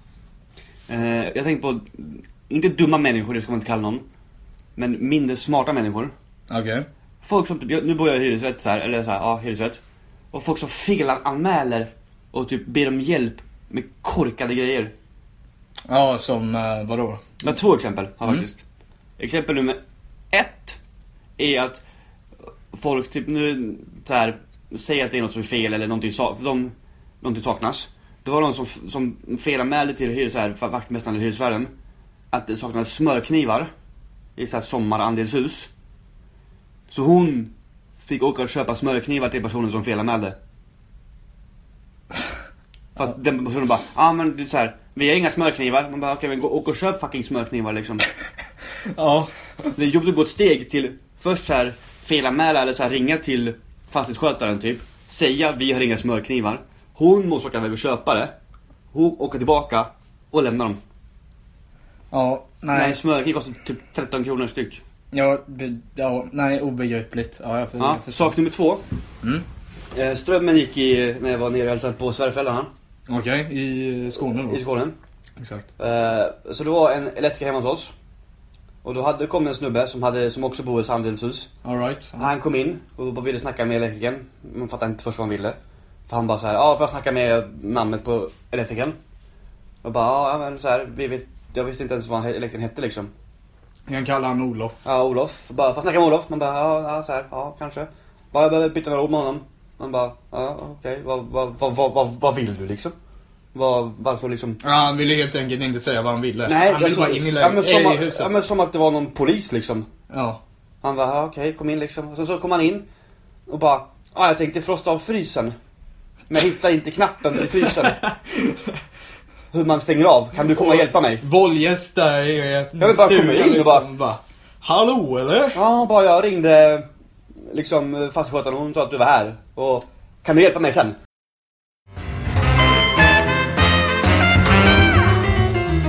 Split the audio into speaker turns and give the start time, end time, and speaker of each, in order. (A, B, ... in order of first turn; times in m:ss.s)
0:00.9-0:04.0 A
0:04.8-0:06.1 A
0:06.5-0:06.8 B
0:07.2-0:09.8 A
0:10.3-0:14.9 A
0:15.9-0:17.4 B
0:17.4-0:18.6 A
0:19.2-0:19.8 A
0:20.3-0:20.8 A
0:21.4-0:21.8 A
0:22.7-0:31.7 A
0:32.3-0:33.7 A
0:34.4-0:35.7 A
0:36.9-0:37.5 A
0:38.0-0:40.4 A
0:43.0-0:48.0 A
0:48.8-0:49.7 B
0:49.7-0:58.3 A
0:58.9-1:00.8 A
1:02.1-1:03.0 B
1:02.7-1:04.8 A
1:05.1-1:08.3 B
1:07.8-1:08.8 A
1:09.9-1:12.7 A
1:13.1-1:14.6 B
1:14.5-1:14.9 A
1:15.4-1:15.7 B
1:15.8-1:17.9 A
1:18.8-1:21.5 A
1:21.6-1:22.3 B
1:22.2-1:25.6 A
1:26.1-1:29.0 A
1:29.8-1:33.1 A
1:33.9-1:34.8 B
1:34.8-1:42.9 A
1:43.5-1:44.6 A
1:44.6-1:48.3 B
1:46.4-1:49.9 A
1:50.1-1:50.4 B
1:50.8-1:52.8 A
1:53.5-1:55.5 A
1:56.3-1:58.0 A
1:57.5-1:58.8 B
1:59.5-2:01.2 A
2:00.4-2:05.6 B
2:02.8-2:03.9 A
2:05.5-2:06.8 A
2:07.5-2:11.0 A